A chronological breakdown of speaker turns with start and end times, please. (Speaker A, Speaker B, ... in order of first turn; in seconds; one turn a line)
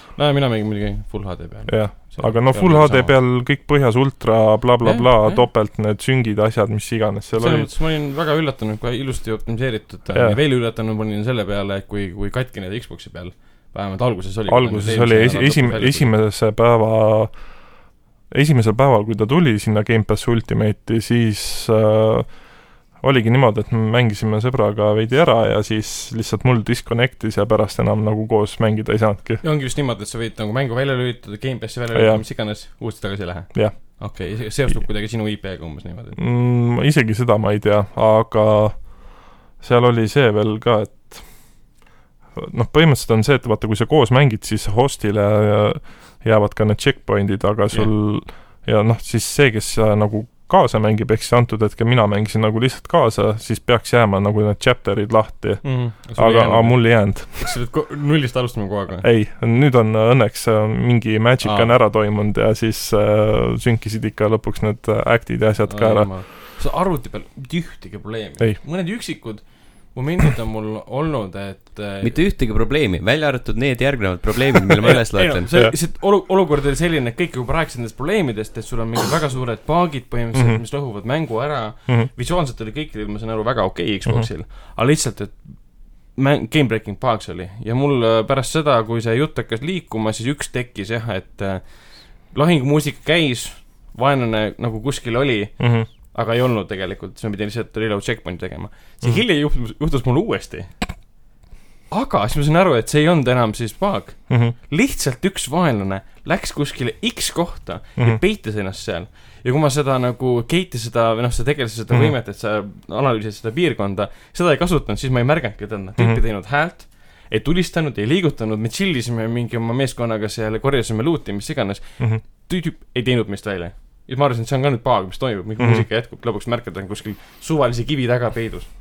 Speaker A: 0.1-3.2
Speaker B: 1.7-7.7
Speaker A: 4.8-5.5
Speaker A: 7.3-16.1
Speaker B: 10.1-10.4
Speaker B: 14.5-29.4
Speaker A: 29.4-36.2
Speaker B: 31.9-32.3
Speaker B: 33.5-34.0
Speaker B: 36.2-41.7
Speaker B: 42.3-57.5
Speaker A: 55.6-59.1
Speaker B: 59.0-66.3
Speaker A: 61.4-61.7
Speaker A: 65.7-72.2
Speaker C: 72.0-75.5
Speaker A: 74.8-101.1
Speaker B: 80.3-80.6
Speaker B: 95.6-95.9
Speaker A: 101.9-128.7
Speaker B: 104.3-104.5
Speaker B: 125.6-125.9